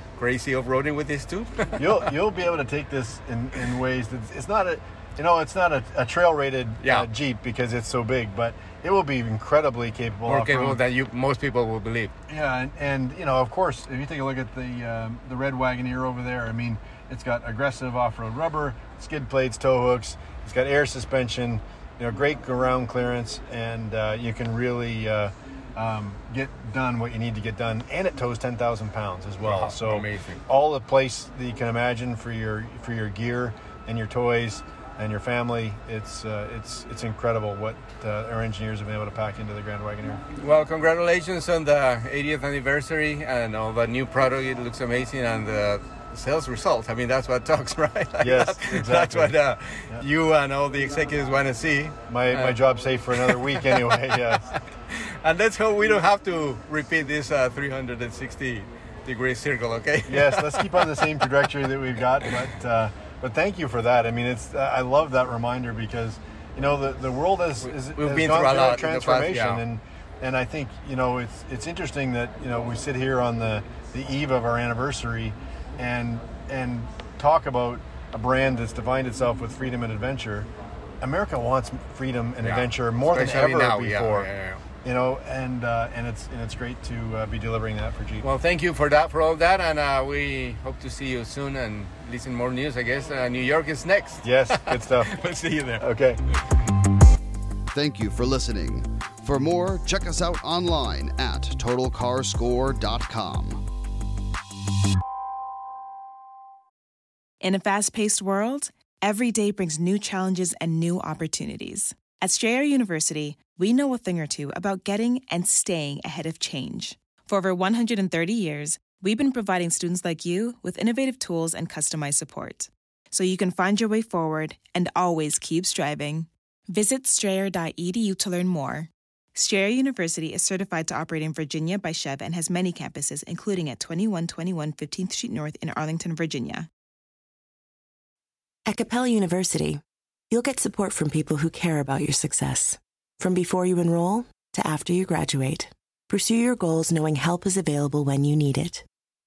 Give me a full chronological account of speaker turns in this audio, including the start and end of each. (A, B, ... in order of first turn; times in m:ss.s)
0:00.2-0:02.1 A
0:01.8-0:10.8 B
0:06.8-0:07.1 A
0:10.2-0:12.1 A
0:12.3-0:40.2 B
0:29.4-0:30.4 A
0:40.4-0:52.6 A
0:48.2-0:49.3 B
0:52.1-0:54.4 B
0:53.2-1:01.2 A
1:00.0-1:20.5 B
1:07.6-1:09.6 A
1:21.0-1:24.3 B
1:22.4-1:24.6 A
1:24.8-1:28.3 B
1:28.2-1:35.8 A
1:34.2-1:35.1 B
1:35.8-1:36.2 B
1:37.7-1:43.6 C
1:47.4-2:16.7 D
2:18.6-2:28.8 E